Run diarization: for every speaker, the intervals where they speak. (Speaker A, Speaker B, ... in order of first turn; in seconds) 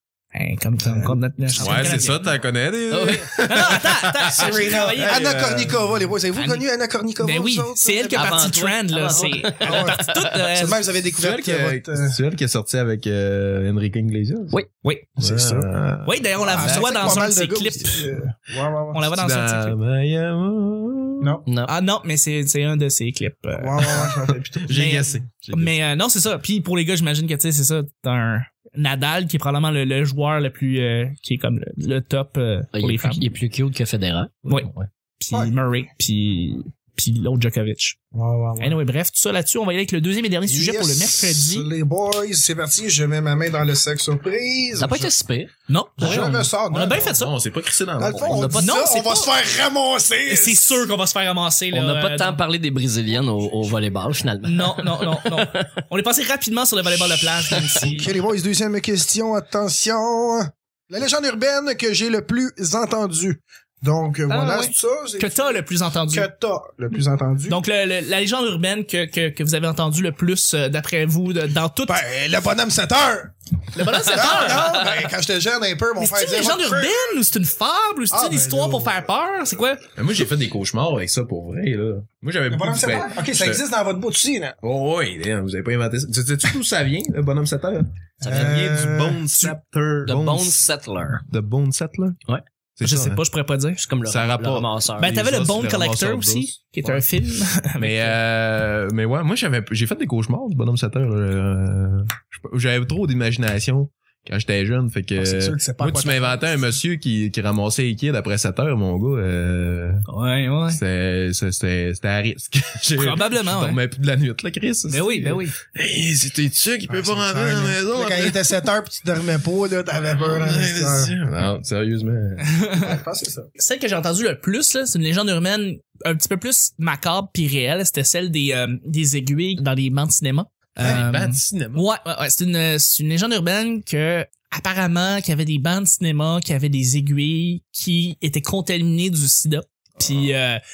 Speaker A: 0.3-2.3, 3.5-5.3, 6.3-6.7, 7.2-10.8, 14.8-15.1, 16.0-18.1, 18.9-19.7, 21.7-24.0, 24.7-33.3, 34.5-38.0, 38.6-41.7, 45.7-47.3, 48.5-49.3, 50.2-52.4, 54.4-58.1, 64.3-66.3, 67.5-72.0, 73.7-74.9, 76.0-79.8, 92.8-93.8, 95.0-98.2, 110.1-110.8, 113.0-113.8, 114.9-115.5, 122.4-122.9, 123.6-140.6
Speaker B: 0.8-1.2, 4.4-8.5, 9.1-12.2, 15.2-15.7, 16.4-19.1, 23.5-24.8, 35.3-35.5, 38.1-38.8, 40.4-45.1, 46.0-47.1, 48.0-50.7, 57.8-67.6, 71.8-73.3, 74.0-77.2, 78.1-79.0, 82.5-84.5, 88.2-89.6, 105.2-106.7, 116.9-121.1, 122.8-123.5
Speaker C: 1.6-5.8, 11.2-14.6, 15.2-17.3, 19.1-21.4, 24.6-25.8, 47.0-48.5, 80.0-83.6, 84.6-90.6, 91.2-92.2, 92.8-93.2, 94.0-97.0, 97.8-110.0, 110.7-118.6, 120.2-122.7, 130.8-131.8
Speaker D: 2.9-3.3, 8.1-10.0, 21.4-21.7, 32.7-34.9, 44.7-45.5, 48.1-48.7, 51.7-55.7, 88.2-88.6, 90.0-91.2, 93.8-95.2